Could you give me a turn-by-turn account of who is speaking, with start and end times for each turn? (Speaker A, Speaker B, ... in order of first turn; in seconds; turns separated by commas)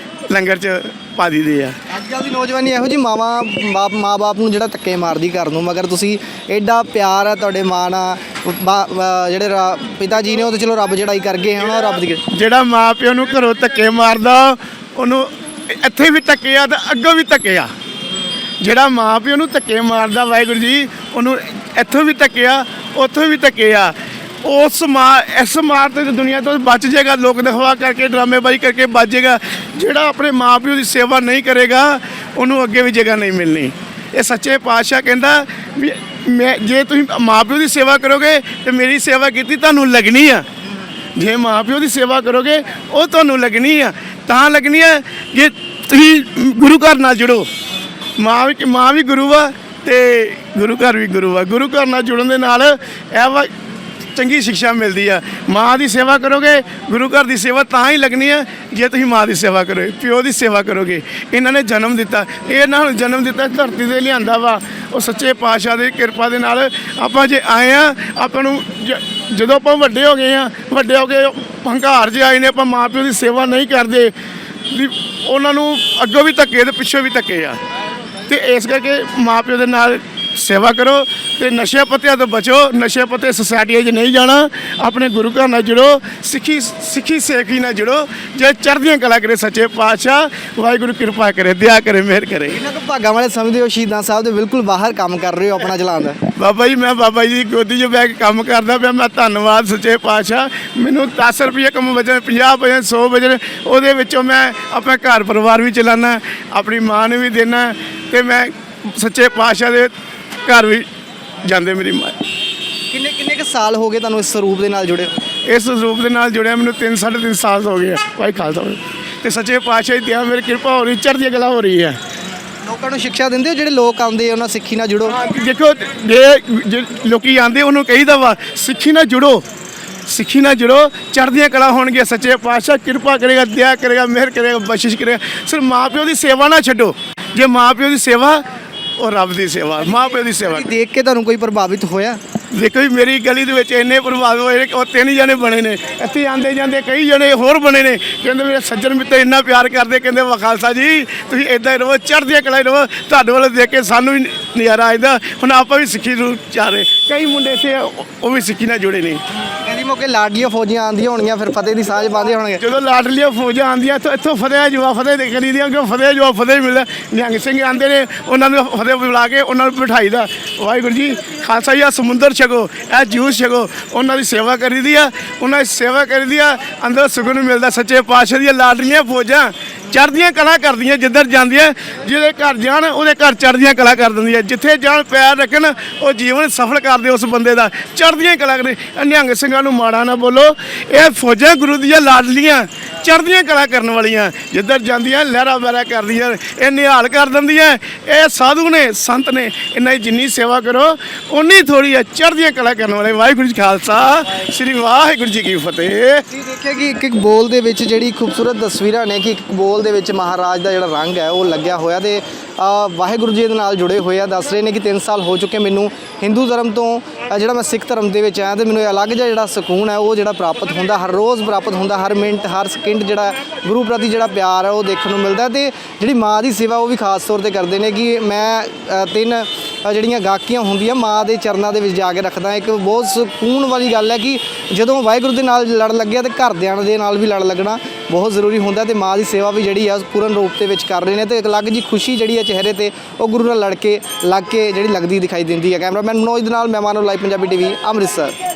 Speaker A: 0.3-1.8, Speaker B: 1.9-12.2, Speaker A: 12.2-17.7, Speaker A: 18.6-40.5, Speaker A: 41.1-47.5, Speaker A: 48.2-53.5, Speaker A: 54.1-74.1, Speaker A: 74.7-77.6, Speaker A: 78.2-92.6, Speaker B: 92.5-96.2, Speaker A: 96.3-110.9, Speaker A: 111.4-112.2, Speaker B: 112.9-115.1, Speaker A: 115.5-122.0, Speaker B: 122.6-125.2, Speaker A: 125.1-129.4, Speaker A: 130.1-138.4, Speaker A: 139.0-140.7, Speaker B: 140.2-142.2, Speaker A: 142.5-159.2, Speaker B: 159.6-162.6, Speaker A: 162.6-206.2, Speaker B: 206.3-248.4